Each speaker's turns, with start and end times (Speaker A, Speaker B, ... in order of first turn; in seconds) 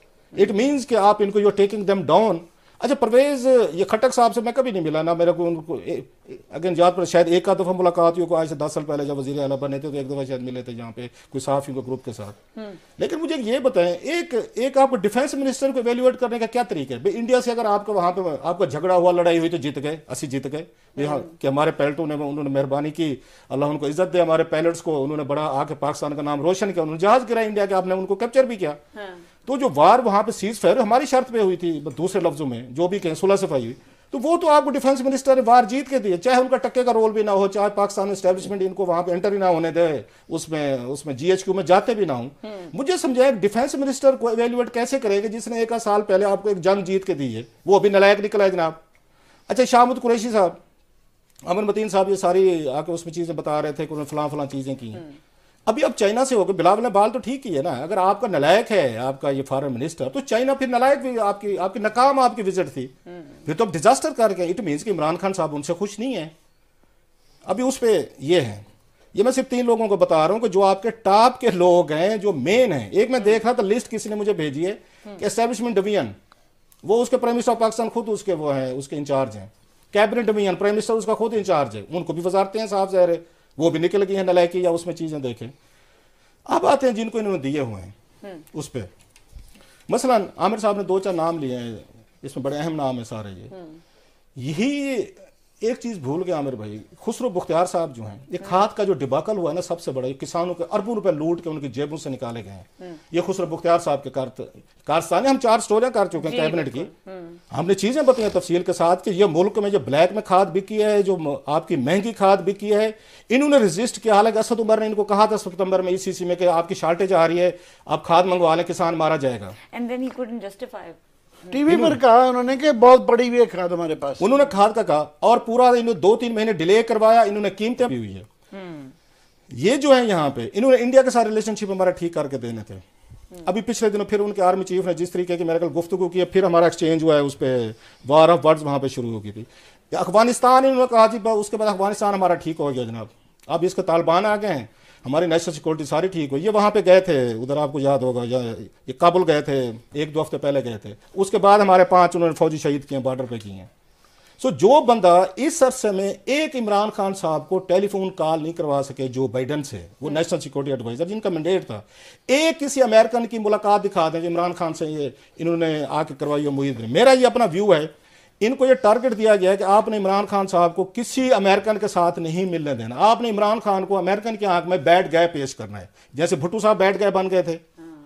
Speaker A: 0.4-12.4, 13.0-28.8, 29.5-48.8, 49.5-50.6, 51.5-55.0, 55.7-62.9, 63.5-66.3, 67.5-76.2, 76.8-85.5, 86.5-87.9, 88.5-88.9, 89.9-93.5, 94.4-106.9, 107.5-119.5, 121.7-122.0, 124.2-128.3, 129.5-132.8, 133.4-153.7, 154.4-177.6
Speaker B: 21.0-21.3, 29.0-29.2, 106.2-107.4, 119.7-121.6, 128.5-128.9
Speaker C: 121.5-124.3